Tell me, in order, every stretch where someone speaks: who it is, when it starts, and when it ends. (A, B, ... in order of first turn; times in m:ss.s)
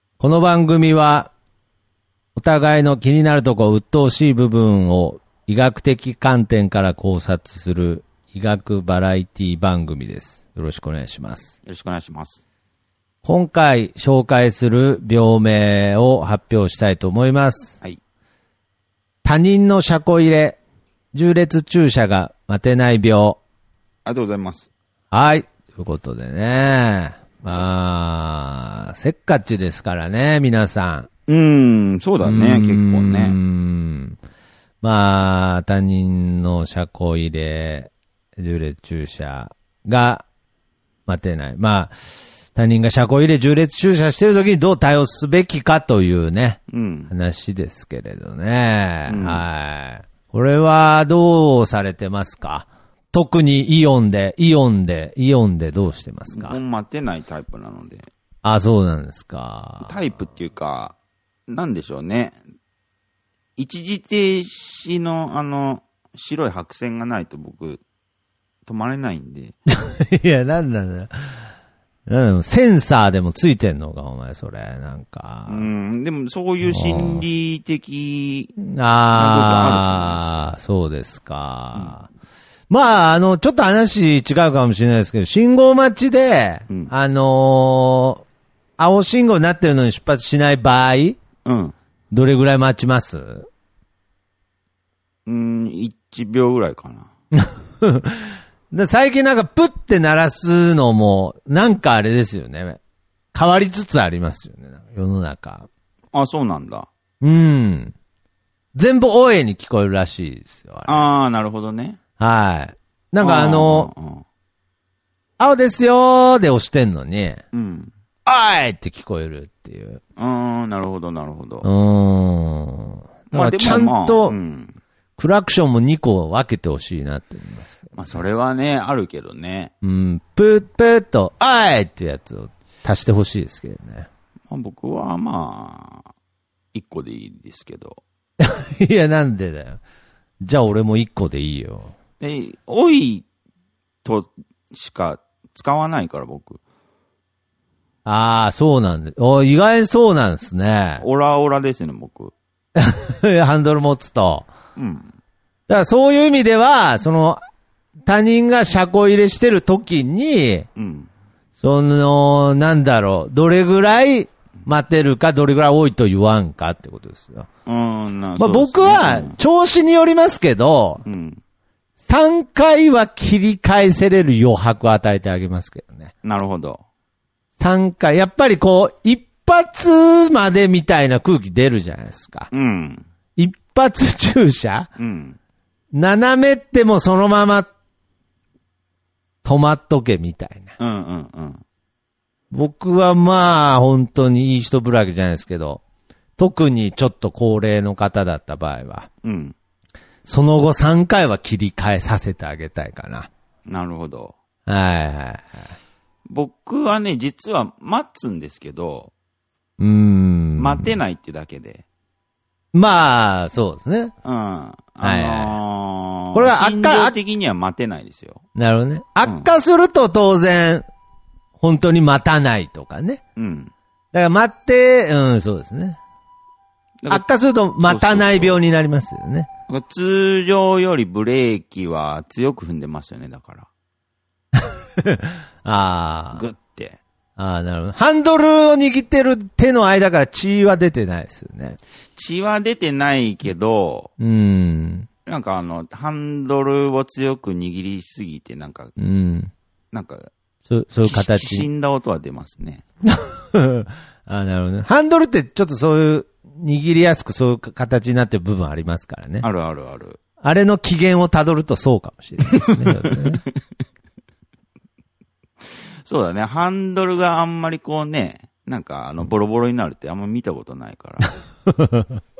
0:00.2-0:01.3 A
0:02.4-0:11.5 A
0:11.6-0:12.4 B
0:13.2-0:17.8 A
0:19.2-0:20.6 A
0:21.1-0:23.4 A
0:24.0-0:24.7 B
0:25.1-0:31.1 A
0:31.3-0:33.4 B
0:32.2-0:34.2 A
0:34.8-0:40.2 A
0:41.1-0:42.0 A
0:42.5-0:56.6 A
0:46.7-0:47.1 B
0:49.1-0:49.4 B
0:56.3-0:58.0 B
0:58.4-1:00.0 A
0:59.8-1:00.9 B
1:01.5-1:02.4 B
1:03.6-1:07.8 B
1:08.6-1:09.5 B
1:09.8-1:11.4 A
1:12.1-1:15.7 A
1:15.5-1:18.5 B
1:16.6-1:17.2 A
1:18.6-1:22.1 A
1:19.1-1:20.4 B
1:21.7-1:22.0 B
1:22.7-1:28.2 A
1:28.8-1:31.2 A
1:31.4-1:31.7 B
1:32.1-1:33.5 A
1:35.2-1:37.1 B
1:37.3-1:42.8 A
1:43.3-1:45.7 A
1:46.1-1:46.9 B
1:47.2-1:47.9 A
1:48.7-1:51.0 A
1:50.8-1:52.0 B
1:52.2-1:53.9 A
1:53.2-1:54.2 B
1:55.4-1:57.4 A
1:57.5-1:57.9 B
1:58.2-2:00.0 A
2:00.2-2:01.7 B
2:01.6-2:04.3 A
2:03.3-2:04.8 B
2:05.2-2:08.2 A
2:08.0-2:09.7 B
2:09.8-2:14.1 A
2:14.5-2:16.1 B
2:16.7-2:18.0 B
2:18.4-2:19.8 A
2:20.4-2:21.9 A
2:22.2-2:23.2 B
2:24.0-2:26.6 B
2:28.0-2:31.0 A
2:31.0-2:32.3 B
2:32.8-2:34.5 A
2:34.8-2:35.1 B
2:35.7-2:37.4 A
2:38.0-2:40.7 A
2:40.8-2:41.1 B
2:41.6-2:47.5 A
2:47.6-2:49.4 B
2:48.4-2:51.0 A
2:51.0-2:51.4 B
2:52.0-2:56.1 A
2:56.2-2:56.8 B
2:57.6-3:02.5 A
3:02.5-3:03.0 B
3:03.4-3:04.9 A
3:05.0-3:05.4 B
3:05.9-3:07.7 A
3:09.4-3:10.7 A
3:10.8-3:11.6 B
3:12.5-3:15.8 A
3:16.4-3:19.1 A
3:19.2-3:19.5 B
3:20.2-3:23.3 A
3:23.7-3:24.3 B
3:24.7-3:25.6 A
3:26.3-3:29.1 B
3:29.8-3:30.9 A
3:30.6-3:31.8 B
3:32.7-3:34.1 A
3:34.2-3:38.4 B
3:35.0-3:35.5 A
3:36.3-3:37.2 A
3:38.6-3:40.8 A
3:39.2-3:39.5 B
3:41.6-3:43.2 A
3:43.4-3:43.7 B
3:44.1-3:46.0 A
3:47.1-3:49.5 A
3:47.8-3:48.6 B
3:49.7-3:53.7 B
3:54.6-3:56.5 A
3:56.3-3:57.0 B
3:57.4-4:01.8 A
4:02.2-4:04.1 B
4:04.2-4:05.1 A
4:05.2-4:08.9 B
4:09.0-4:09.5 A
4:09.9-4:10.3 B
4:10.7-4:11.7 A
4:11.0-4:12.8 B
4:13.0-4:19.4 A
4:19.4-4:20.2 B
4:20.4-4:23.4 A
4:22.5-4:23.5 B
4:26.0-4:31.4 B
4:31.7-4:32.0 A